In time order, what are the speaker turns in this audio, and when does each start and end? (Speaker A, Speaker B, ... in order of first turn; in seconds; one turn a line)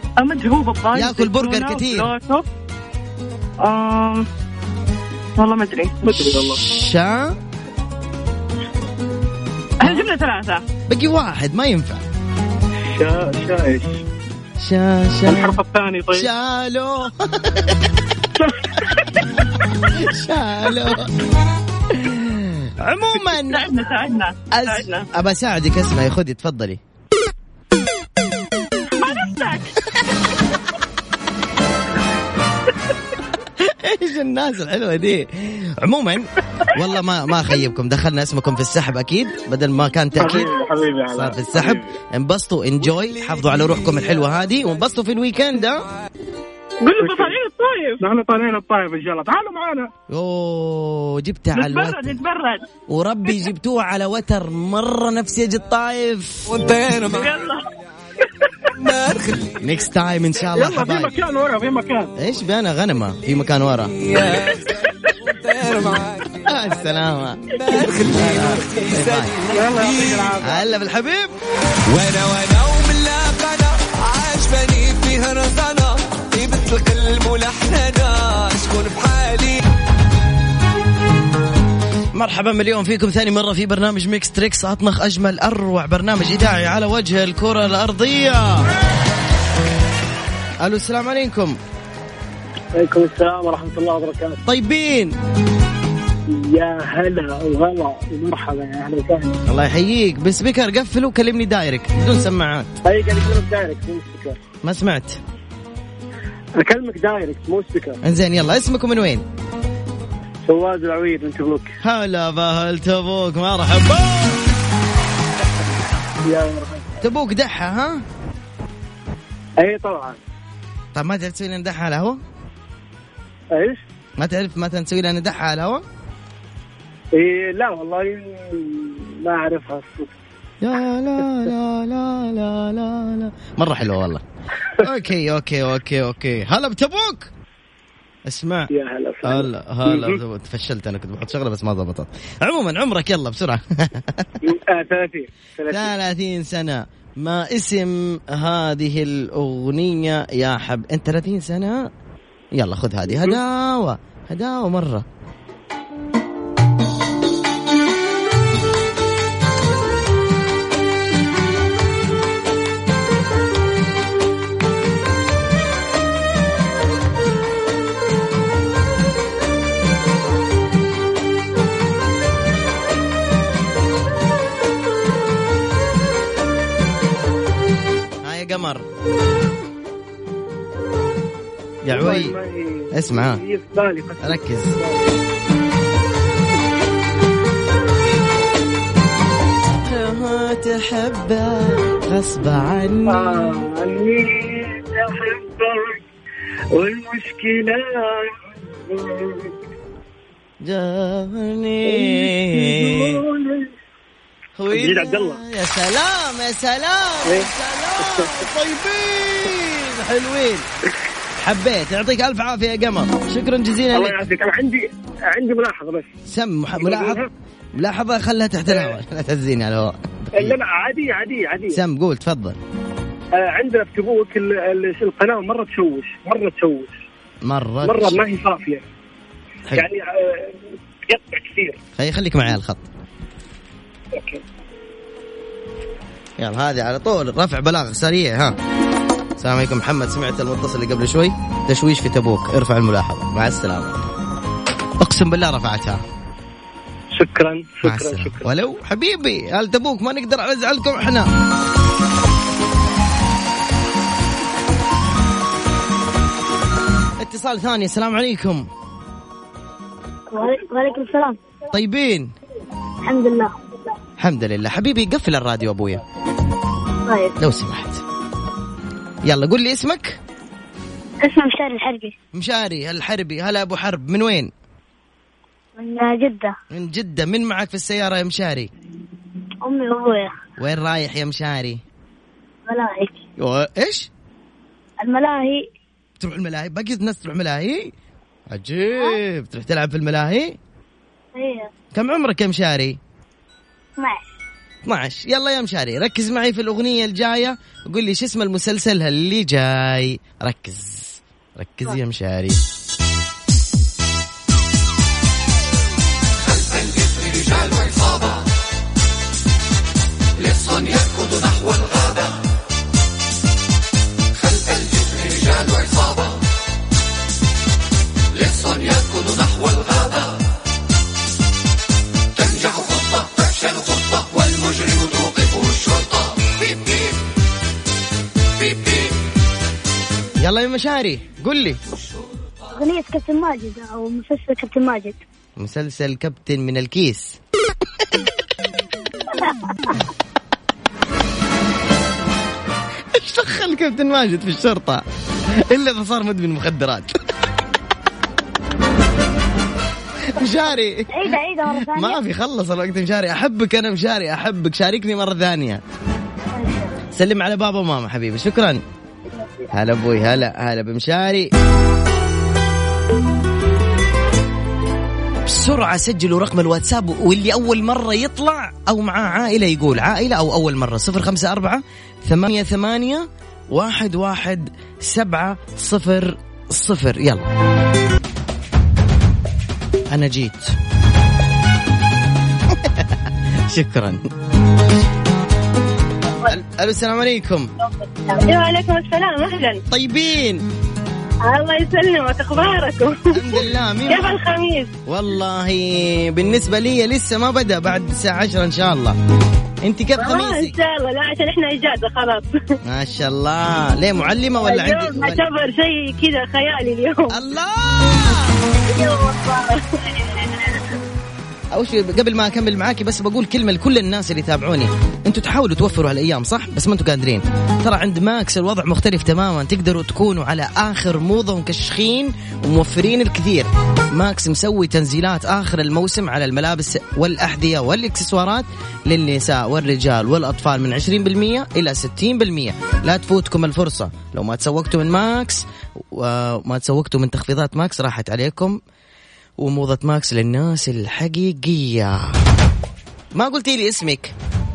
Speaker A: 0.2-2.5
Speaker B: 0.9-2.1
Speaker A: 3.6-4.2
Speaker A: 5.4-6.5
Speaker C: 6.0-6.6
Speaker B: 6.5-7.4
Speaker A: 9.8-10.6
Speaker B: 9.8-10.1
Speaker B: 10.9-12.0
Speaker C: 12.9-14.0
Speaker B: 14.6-15.6
Speaker C: 15.2-16.3
Speaker B: 16.1-17.8
Speaker B: 19.9-21.1
Speaker B: 21.9-23.7
Speaker A: 23.3-25.1
Speaker B: 24.5-26.8
Speaker A: 29.0-29.7
Speaker B: 33.6-40.5
Speaker C: 40.2-41.9
Speaker B: 41.1-45.9
Speaker A: 46.8-48.0
Speaker C: 47.0-47.3
Speaker C: 48.0-49.9
Speaker B: 50.1-52.2
Speaker A: 51.5-52.6
Speaker B: 52.9-56.5
Speaker D: 56.5-57.4
Speaker A: 57.2-57.5
Speaker D: 58.7-59.6
Speaker B: 59.6-61.1
Speaker C: 60.5-62.1
Speaker B: 62.2-63.9
Speaker D: 64.0-66.3
Speaker B: 66.4-69.3
Speaker D: 67.5-70.4
Speaker C: 69.5-70.7
Speaker B: 70.4-71.3
Speaker D: 71.9-79.6
Speaker B: 82.1-88.7
Speaker B: 90.6-91.6
Speaker E: 92.8-94.4
Speaker B: 94.4-95.1
Speaker E: 96.3-99.4
Speaker B: 99.5-102.7
Speaker E: 102.8-104.4
Speaker B: 104.6-105.2
Speaker E: 106.6-108.0
Speaker B: 108.0-109.2
Speaker E: 110.4-111.8
Speaker B: 111.8-114.4
Speaker E: 116.3-116.9
Speaker B: 117.0-118.0
Speaker E: 119.6-120.2
Speaker B: 120.9-122.2
Speaker E: 123.5-123.8
Speaker B: 124.2-125.8
Speaker E: 127.1-130.1
Speaker B: 130.6-134.2
Speaker B: 134.8-137.3
Speaker B: 138.2-138.7
Speaker E: 138.7-140.2
Speaker B: 139.2-144.3
Speaker E: 144.4-145.9
Speaker B: 145.7-151.9
Speaker B: 152.5-155.1
Speaker B: 178.2-178.8
Speaker B: 181.8-182.3
Speaker E: 181.9-185.0
Speaker B: 182.9-183.4
Speaker B: 184.2-184.8
Speaker B: 189.8-193.5
Speaker E: 193.1-196.0
Speaker E: 196.7-199.5
Speaker B: 200.6-203.2
Speaker E: 201.8-203.7
Speaker B: 204.6-210.6
Speaker E: 204.7-205.4
Speaker E: 208.0-208.4
Speaker B: 211.4-214.2
Speaker E: 213.9-216.1
Speaker B: 216.2-217.2
Speaker E: 216.8-217.3
Speaker B: 217.8-220.6
Speaker E: 220.3-221.8
Speaker B: 221.7-222.6
Speaker E: 223.4-227.0
Speaker B: 227.4-228.2
Speaker E: 227.8-228.8
Speaker E: 229.7-231.8
Speaker B: 232.0-232.8
Speaker E: 234.1-234.4
Speaker B: 236.4-238.5
Speaker B: 239.4-244.0
Speaker B: 245.0-246.0
Speaker E: 247.1-248.5
Speaker B: 247.8-251.3
Speaker B: 257.2-258.7
Speaker F: 260.3-261.3
Speaker B: 261.7-262.3
Speaker F: 263.1-263.5
Speaker B: 264.2-266.0
Speaker B: 267.4-268.0
Speaker B: 269.2-270.2
Speaker F: 271.2-272.1
Speaker B: 272.3-274.5
Speaker F: 275.8-276.5
Speaker B: 276.7-278.7
Speaker F: 279.7-280.3
Speaker B: 280.6-281.8
Speaker F: 282.7-283.1
Speaker B: 283.4-284.1
Speaker F: 285.0-285.6
Speaker B: 286.2-287.9
Speaker B: 288.5-290.6
Speaker F: 291.4-291.6
Speaker B: 291.9-293.0
Speaker B: 294.9-302.6
Speaker B: 330.4-331.8
Speaker F: 332.7-335.1
Speaker B: 335.6-337.4
Speaker B: 343.1-345.0
Speaker B: 345.6-347.1
Speaker B: 350.3-355.8
Speaker F: 351.1-352.2
Speaker B: 357.1-358.8
Speaker B: 359.7-361.5
Speaker B: 365.4-377.5
Speaker B: 380.1-380.7
Speaker B: 382.7-383.1
Speaker B: 383.7-384.2
Speaker B: 386.5-387.7
Speaker G: 387.9-389.8
Speaker B: 389.9-390.6
Speaker G: 391.4-394.9
Speaker B: 393.3-394.3
Speaker B: 395.1-399.1
Speaker B: 399.8-400.8
Speaker G: 400.2-402.5
Speaker B: 402.9-405.4
Speaker G: 404.6-407.4
Speaker B: 407.3-408.5
Speaker G: 408.9-410.8
Speaker B: 411.7-438.8
Speaker B: 439.6-442.3
Speaker B: 443.3-444.3